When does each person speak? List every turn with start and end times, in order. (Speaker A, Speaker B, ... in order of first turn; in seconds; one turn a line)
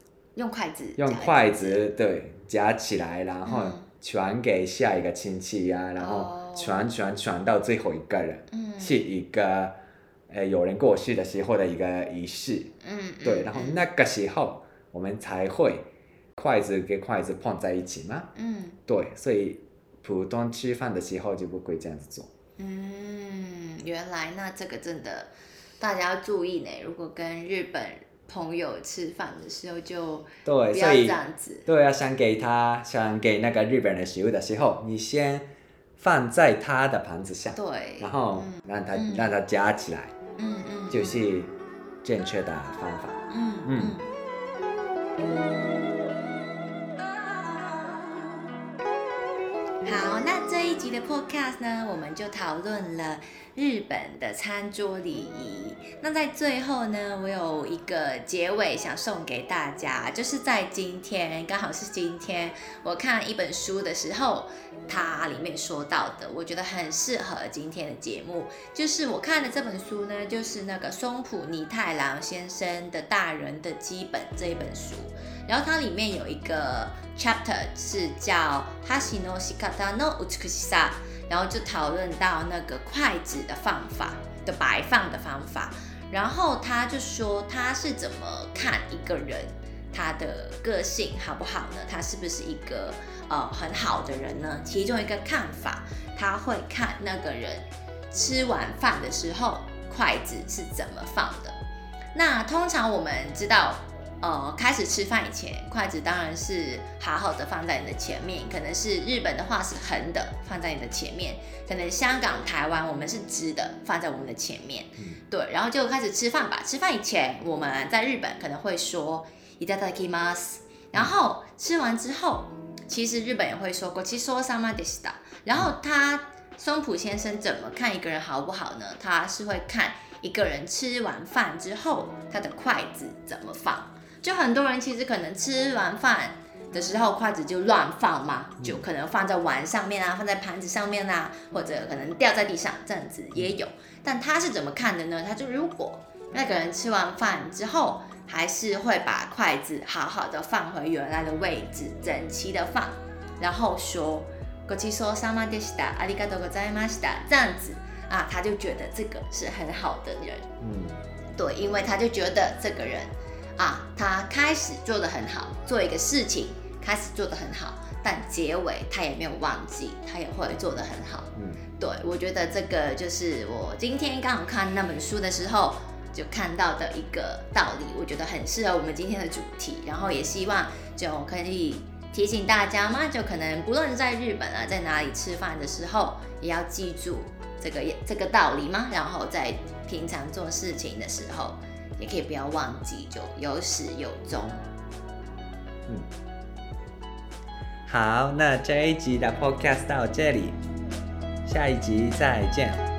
Speaker A: 0.3-1.8
Speaker B: 1.0-9.7
Speaker A: 3.4-3.9
Speaker A: 6.0-6.9
Speaker A: 8.5-9.0
Speaker B: 10.3-12.7
Speaker A: 12.8-13.8
Speaker B: 13.2-18.3
Speaker A: 18.3-18.8
Speaker B: 18.9-22.3
Speaker A: 22.6-31.7
Speaker B: 30.4-40.1
Speaker A: 37.5-39.3
Speaker A: 40.4-41.2
Speaker B: 40.9-41.5
Speaker B: 42.0-44.0
Speaker A: 43.3-44.1
Speaker A: 47.3-48.3
Speaker A: 49.8-101.6
Speaker A: 102.1-160.5
Speaker B: 138.6-138.8
Speaker B: 160.6-161.0
Speaker A: 161.3-194.6
Speaker B: 171.3-171.6
Speaker B: 197.8-200.6
Speaker B: 201.4-202.8